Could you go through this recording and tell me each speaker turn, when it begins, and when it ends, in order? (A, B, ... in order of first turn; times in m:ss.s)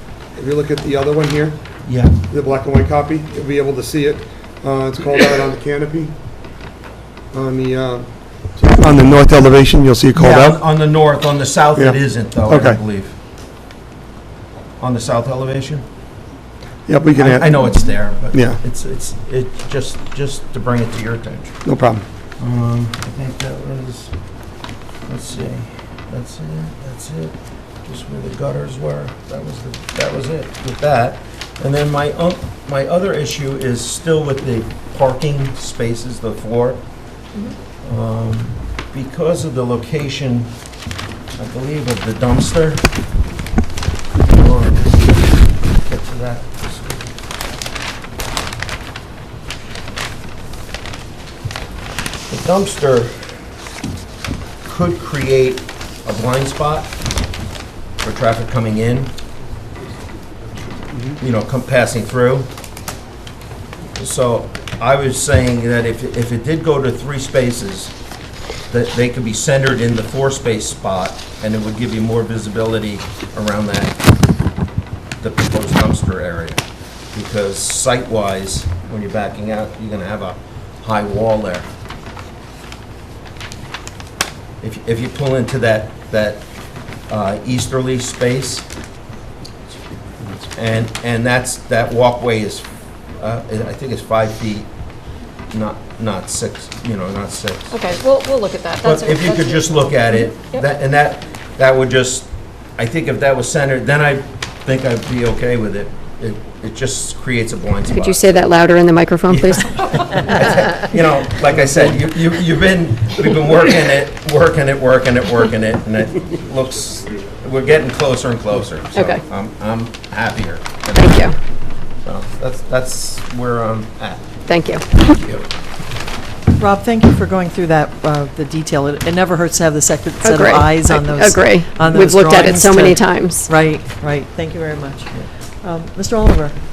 0:00.3-0:01.6 A
0:01.9-0:02.2 B
0:02.2-0:06.1 A
0:07.3-0:10.6 A
0:10.2-0:13.2 B
0:11.8-0:12.8 A
0:14.8-0:15.8 B
0:16.9-0:18.6 A
0:17.2-0:21.5 B
0:21.6-0:22.0 A
0:22.4-0:24.1 B
0:25.1-0:36.8 B
0:37.8-0:40.5 B
0:41.4-0:42.9 B
0:44.3-0:45.3 B
0:45.8-0:47.1 B
0:52.3-0:53.2 B
0:54.6-0:57.0 B
0:58.0-0:59.1 B
1:00.9-1:01.2 A
1:01.2-1:02.5 B
1:04.0-1:07.9 B
1:08.7-1:14.0 B
1:15.2-1:16.6 B
1:17.1-1:21.7 B
1:24.6-1:26.4 B
1:27.1-1:28.7 B
1:30.2-1:34.7 B
1:35.5-1:37.8 B
1:37.7-1:40.6 C
1:38.8-1:48.6 B
1:47.9-1:50.3 C
1:49.3-2:01.3 B
2:00.9-2:01.4 C
2:02.0-2:04.4 B
2:04.5-2:04.9 C
2:04.9-2:05.5 B
2:06.6-2:15.1 D
2:10.2-2:13.5 C
2:15.6-2:16.5 D